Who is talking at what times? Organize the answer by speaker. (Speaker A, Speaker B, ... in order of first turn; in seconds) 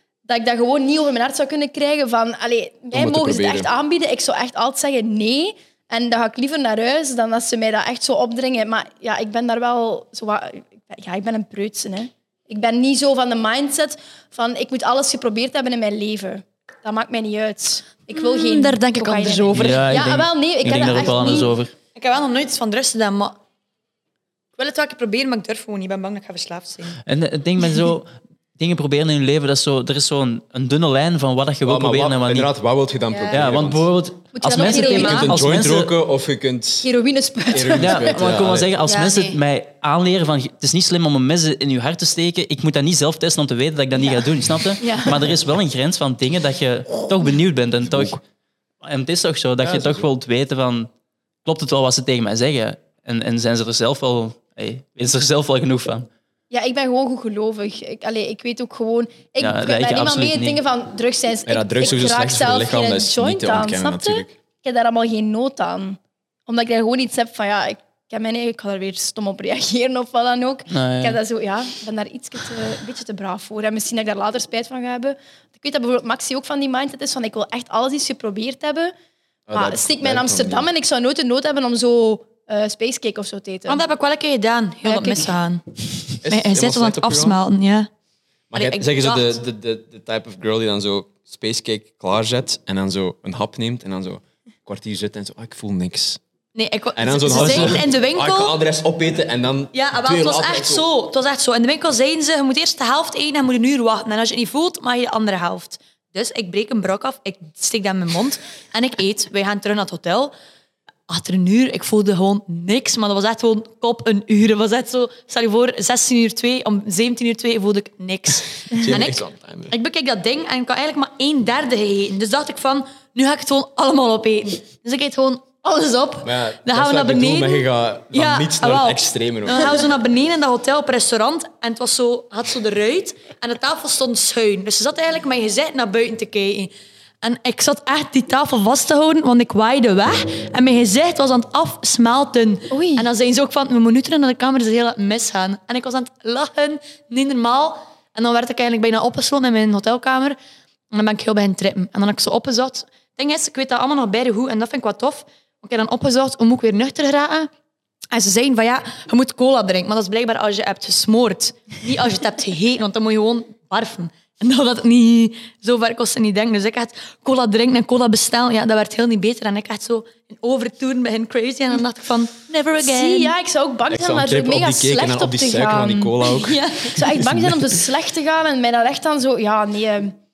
Speaker A: 0.2-21.6, 34.3-35.3, 36.8-38.0, 44.0-44.3, 44.8-45.2, 56.5-78.9, 79.5-83.8, 84.8-85.3, 142.7-143.1, 172.8-180.1
Speaker B: 2.9-3.7, 31.6-33.9, 35.0-36.9, 37.5-38.7, 49.6-50.1, 61.5-64.3, 79.5-80.7, 86.2-87.4, 88.5-96.2, 96.9-100.9, 118.7-119.7, 126.2-129.8, 173.9-177.7
Speaker C: 18.1-19.9, 20.6-23.4, 24.6-27.0, 33.1-33.4, 34.6-35.3, 38.9-39.4, 44.8-45.1, 83.7-87.9, 88.5-89.4, 96.5-98.6, 99.7-110.3, 111.1-150.4, 150.9-157.5, 158.1-173.3, 176.2-177.1
Speaker D: 19.5-21.7, 27.0-32.5, 33.3-35.9, 37.8-48.2, 48.8-50.9, 51.4-56.1, 59.4-60.6, 70.7-71.2